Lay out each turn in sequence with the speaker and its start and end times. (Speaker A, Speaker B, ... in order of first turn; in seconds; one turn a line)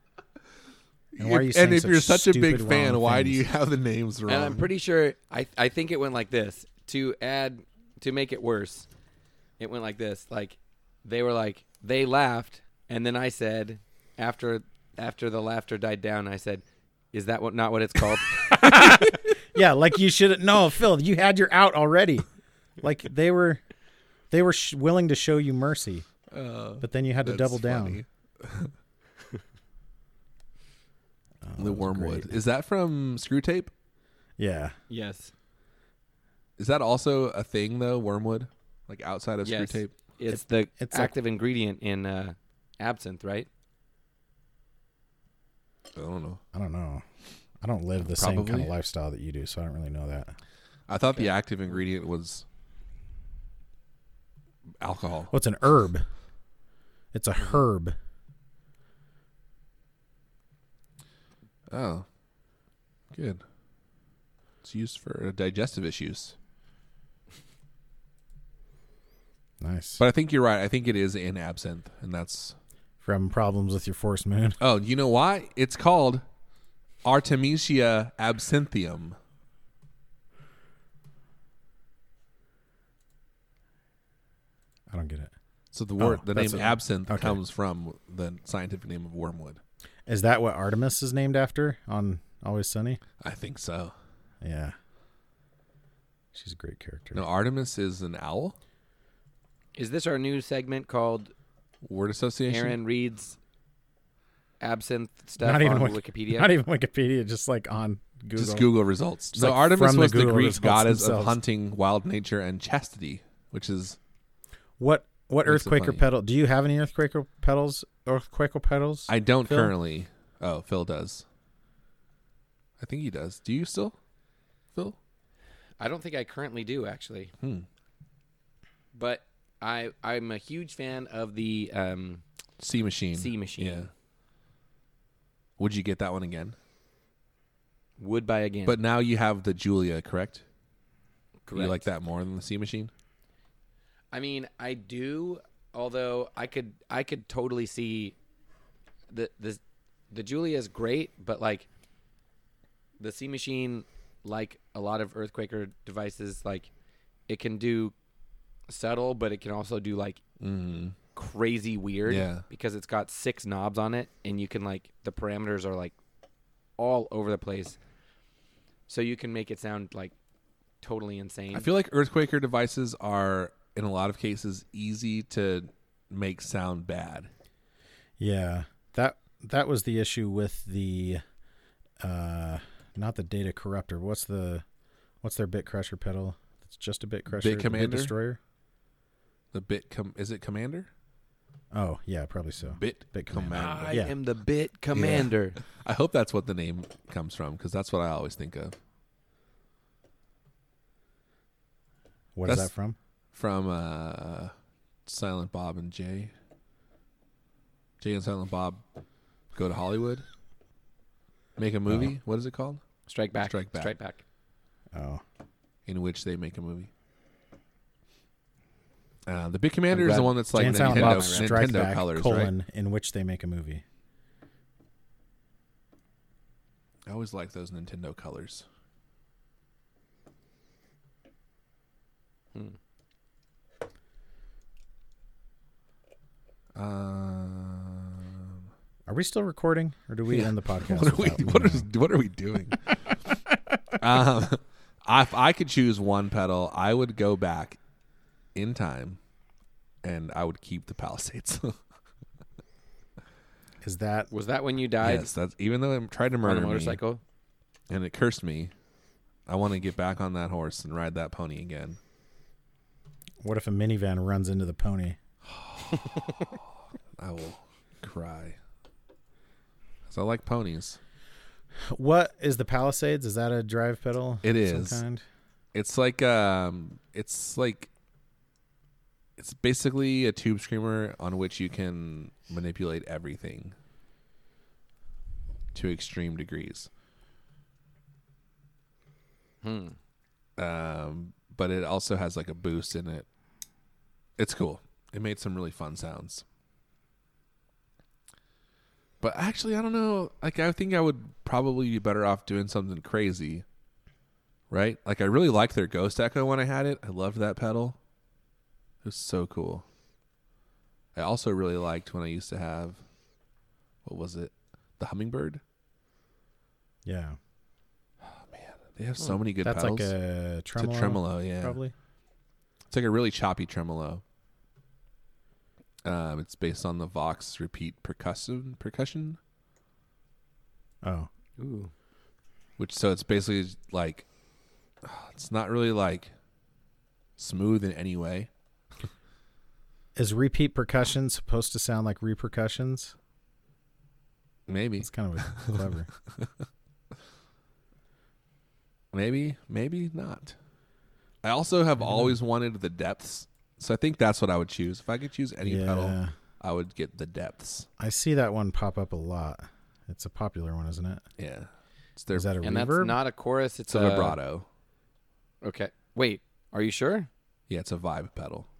Speaker A: 1.1-4.7
Speaker B: 1.2-3.4
Speaker C: 4.3-8.9
Speaker C: 9.6-18.9
Speaker B: 18.5-22.3
Speaker B: 22.8-23.6
Speaker B: 24.3-26.1
Speaker A: 26.3-28.7
Speaker B: 26.8-28.0
Speaker B: 31.4-32.3
Speaker A: 31.6-33.7
Speaker B: 34.4-34.8
Speaker C: 34.9-35.3
Speaker A: 36.6-39.9
Speaker C: 39.4-43.5
Speaker B: 40.3-41.1
Speaker A: 45.9-46.4
Speaker B: 46.5-47.0
Speaker B: 47.6-50.3
Speaker A: 48.0-48.7
Speaker A: 50.9-52.4
Speaker A: 54.8-55.3
Speaker B: 55.3-56.0
Speaker B: 57.1-58.0
Speaker A: 61.7-62.0
Speaker A: 63.1-63.4
Speaker A: 64.6-66.3
Speaker B: 69.6-70.0
Speaker A: 70.0-72.5
Speaker B: 73.0-74.6
Speaker A: 74.6-76.2
Speaker A: 77.0-79.2
Speaker B: 84.9-85.3
Speaker A: 85.7-89.6
Speaker B: 86.0-87.4
Speaker B: 90.0-93.0
Speaker A: 93.2-93.9
Speaker B: 94.4-94.7
Speaker B: 96.3-97.2
Speaker A: 97.1-98.5
Speaker C: 99.7-101.3
Speaker A: 101.8-102.8
Speaker C: 102.5-103.4
Speaker C: 104.6-106.5
Speaker B: 105.4-108.7
Speaker A: 108.3-114.0
Speaker B: 109.3-111.4
Speaker B: 114.8-119.7
Speaker A: 115.4-116.0
Speaker A: 119.1-121.2
Speaker A: 122.8-124.0
Speaker C: 125.8-127.3
Speaker A: 127.4-127.7
Speaker C: 128.9-132.2
Speaker A: 132.6-133.9
Speaker C: 133.1-133.9
Speaker A: 135.6-136.6
Speaker C: 138.0-138.8
Speaker A: 138.7-140.4
Speaker C: 141.4-141.9
Speaker A: 141.5-142.9
Speaker C: 144.1-148.1
Speaker C: 149.1-149.6
Speaker C: 150.1-151.7
Speaker C: 153.0-156.7
Speaker C: 157.3-157.9
Speaker C: 158.7-160.2
Speaker A: 160.4-161.0
Speaker C: 161.1-165.9
Speaker A: 162.1-162.4
Speaker C: 166.8-167.8
Speaker C: 168.9-170.1
Speaker C: 170.8-171.7
Speaker A: 171.5-177.3
Speaker B: 178.2-181.2
Speaker B: 182.0-184.6
Speaker B: 185.2-188.4
Speaker A: 187.3-188.1
Speaker A: 189.5-190.9
Speaker B: 191.7-194.1
Speaker A: 192.7-194.0
Speaker C: 193.5-195.6
Speaker A: 194.9-198.8
Speaker B: 202.3-203.0
Speaker A: 202.4-202.7
Speaker A: 203.3-204.5
Speaker A: 205.1-206.3
Speaker A: 208.0-208.8
Speaker A: 209.5-210.2
Speaker A: 211.6-212.8
Speaker C: 213.1-214.2
Speaker A: 213.4-213.9
Speaker B: 214.9-215.2
Speaker A: 215.8-216.9
Speaker A: 219.3-222.5
Speaker C: 219.9-221.7
Speaker B: 220.5-223.8
Speaker A: 227.1-228.7
Speaker A: 236.8-238.6
Speaker B: 239.1-241.9
Speaker A: 240.3-243.1
Speaker A: 244.0-247.8
Speaker A: 248.5-249.2
Speaker A: 250.0-251.8
Speaker B: 253.8-254.3
Speaker C: 254.3-255.3
Speaker A: 255.0-257.0
Speaker C: 256.4-257.2
Speaker A: 257.9-258.7
Speaker A: 259.5-262.0
Speaker B: 263.4-265.2
Speaker A: 265.5-266.6
Speaker A: 267.2-268.6
Speaker A: 270.1-271.0
Speaker B: 271.9-275.2
Speaker A: 274.4-275.0
Speaker A: 275.7-277.9
Speaker A: 279.4-283.8
Speaker A: 285.7-286.9
Speaker C: 289.6-289.9
Speaker A: 290.6-293.2
Speaker A: 294.4-296.4
Speaker A: 299.2-303.6
Speaker A: 304.7-308.0
Speaker A: 309.0-309.9
Speaker A: 311.1-313.0
Speaker A: 314.0-315.6
Speaker B: 317.0-317.4
Speaker A: 318.2-320.1
Speaker B: 319.6-321.9
Speaker A: 320.8-321.8
Speaker A: 322.9-324.2
Speaker A: 326.0-329.4
Speaker B: 331.0-331.3
Speaker C: 331.6-331.9
Speaker A: 332.8-334.3
Speaker A: 335.0-336.3
Speaker A: 337.4-338.5
Speaker B: 340.1-343.1
Speaker A: 344.7-346.5
Speaker B: 345.0-346.1
Speaker A: 349.1-350.6
Speaker A: 351.4-357.9
Speaker B: 355.6-356.3
Speaker B: 358.0-361.2
Speaker A: 361.4-362.5
Speaker B: 362.3-363.2
Speaker C: 362.6-364.4
Speaker A: 363.9-364.7
Speaker C: 365.6-367.3
Speaker A: 367.7-368.7